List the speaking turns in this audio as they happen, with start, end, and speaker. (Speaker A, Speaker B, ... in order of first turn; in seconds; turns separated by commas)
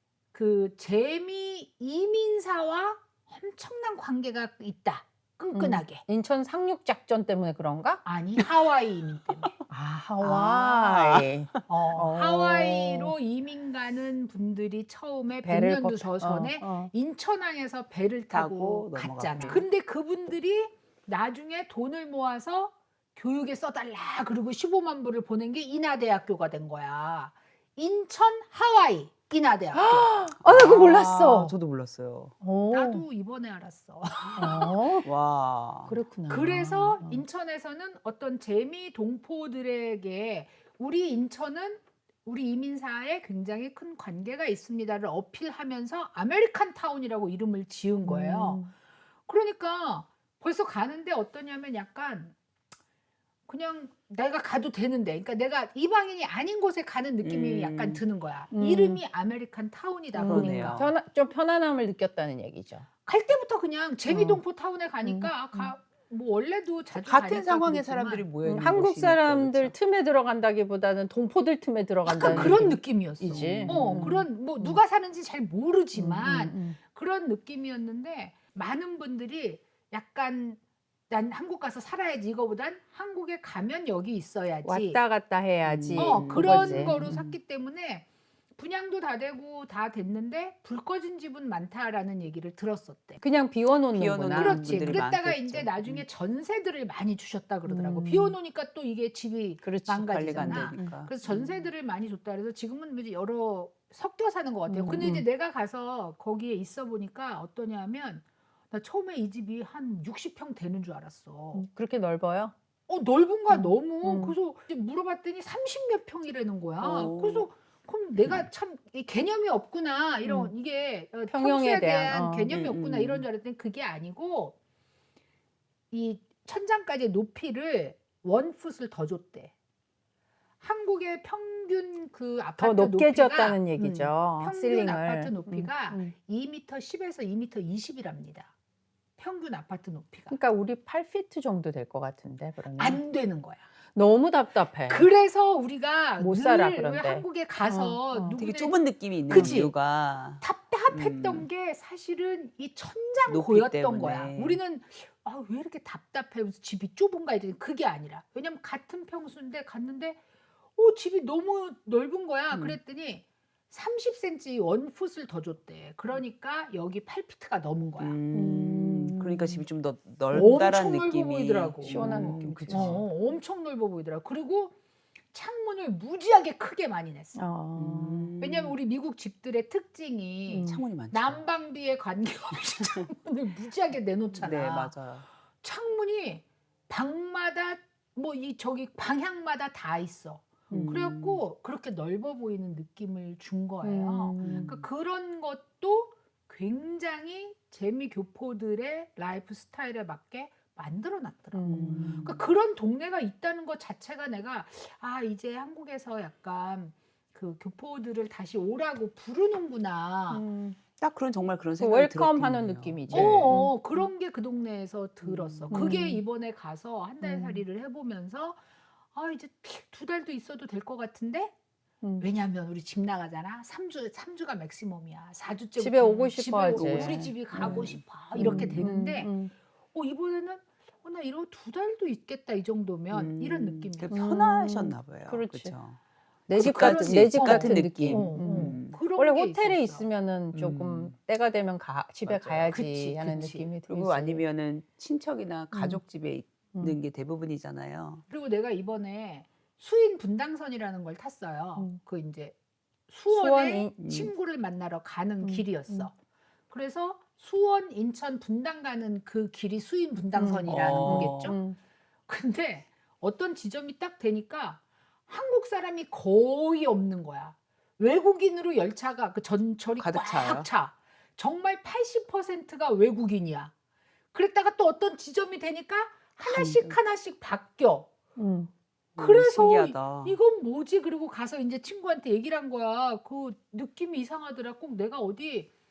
Speaker A: 0.3-6.0, Speaker B: 5.5-8.0, Speaker A: 8.1-9.5, Speaker B: 9.7-13.1, Speaker C: 10.2-11.6, Speaker A: 11.7-30.1, Speaker B: 15.4-16.9, Speaker C: 18.3-19.6, Speaker B: 19.4-19.6, Speaker B: 29.7-31.6, Speaker C: 30.4-32.3, Speaker B: 32.4-33.0, Speaker A: 32.7-34.9, Speaker B: 34.4-35.1, Speaker C: 35.0-36.0, Speaker B: 35.9-37.2, Speaker A: 36.3-48.6, Speaker B: 48.0-48.7, Speaker A: 49.3-52.3, Speaker A: 53.5-60.9, Speaker C: 57.2-58.0, Speaker B: 58.5-59.0, Speaker B: 60.2-62.9, Speaker C: 60.2-60.9, Speaker A: 63.1-68.3, Speaker B: 64.1-64.4, Speaker B: 65.1-65.7, Speaker C: 67.0-69.7, Speaker B: 68.5-74.8, Speaker A: 72.1-85.0, Speaker C: 72.2-74.2, Speaker B: 76.0-76.8, Speaker B: 84.6-87.1, Speaker C: 85.7-87.4, Speaker A: 86.0-88.1, Speaker A: 88.6-93.2, Speaker B: 93.2-95.0, Speaker C: 93.9-96.0, Speaker A: 94.4-111.7, Speaker B: 97.7-98.4, Speaker B: 99.6-101.0, Speaker C: 100.1-101.2, Speaker B: 104.7-105.2, Speaker B: 111.5-112.5, Speaker A: 112.9-124.6, Speaker B: 113.5-114.3, Speaker C: 116.8-117.5, Speaker B: 120.2-120.5, Speaker B: 121.3-122.5, Speaker C: 122.5-123.2, Speaker A: 125.9-129.5, Speaker A: 130.6-138.5, Speaker B: 132.6-136.1, Speaker A: 139.2-140.3, Speaker B: 140.3-143.0, Speaker A: 142.8-143.6, Speaker B: 143.9-145.1, Speaker A: 144.9-149.7, Speaker B: 146.2-148.3, Speaker C: 148.4-151.5, Speaker B: 149.3-149.7, Speaker A: 150.4-160.2, Speaker C: 153.3-154.6, Speaker A: 160.8-168.2, Speaker C: 162.5-162.8, Speaker C: 168.0-173.1, Speaker B: 168.3-169.6, Speaker A: 170.3-174.8, Speaker B: 171.8-173.0, Speaker A: 175.3-177.4, Speaker B: 177.3-178.3, Speaker C: 177.8-178.7, Speaker A: 178.4-185.0, Speaker B: 180.5-180.8, Speaker C: 180.7-181.4, Speaker C: 184.4-185.2, Speaker A: 185.6-210.4, Speaker C: 190.7-191.4, Speaker B: 193.8-194.8, Speaker C: 194.4-194.8, Speaker B: 201.5-202.3, Speaker C: 201.7-202.4, Speaker B: 210.3-210.8, Speaker C: 211.0-213.7, Speaker B: 211.8-214.0, Speaker A: 213.1-218.6, Speaker C: 215.2-216.0, Speaker B: 215.7-216.2, Speaker B: 217.2-217.7, Speaker A: 219.2-221.5, Speaker A: 222.2-229.4, Speaker B: 225.8-227.8, Speaker C: 226.7-228.8, Speaker B: 228.3-229.5, Speaker A: 229.9-234.2, Speaker C: 233.1-236.0, Speaker B: 234.1-235.7, Speaker B: 236.5-244.4, Speaker A: 236.5-240.0, Speaker C: 236.6-239.0, Speaker C: 240.5-241.1, Speaker C: 242.2-248.2, Speaker A: 242.7-243.7, Speaker B: 245.7-246.0, Speaker A: 248.3-252.6, Speaker A: 253.1-256.1, Speaker B: 253.3-254.0, Speaker C: 254.0-254.3, Speaker B: 255.4-256.1, Speaker A: 256.7-261.6, Speaker B: 260.4-261.8, Speaker C: 260.7-261.6, Speaker A: 262.3-273.7, Speaker C: 270.0-270.7, Speaker A: 274.3-278.1, Speaker C: 276.5-277.0, Speaker B: 278.4-278.7, Speaker C: 279.1-280.4, Speaker A: 279.2-285.7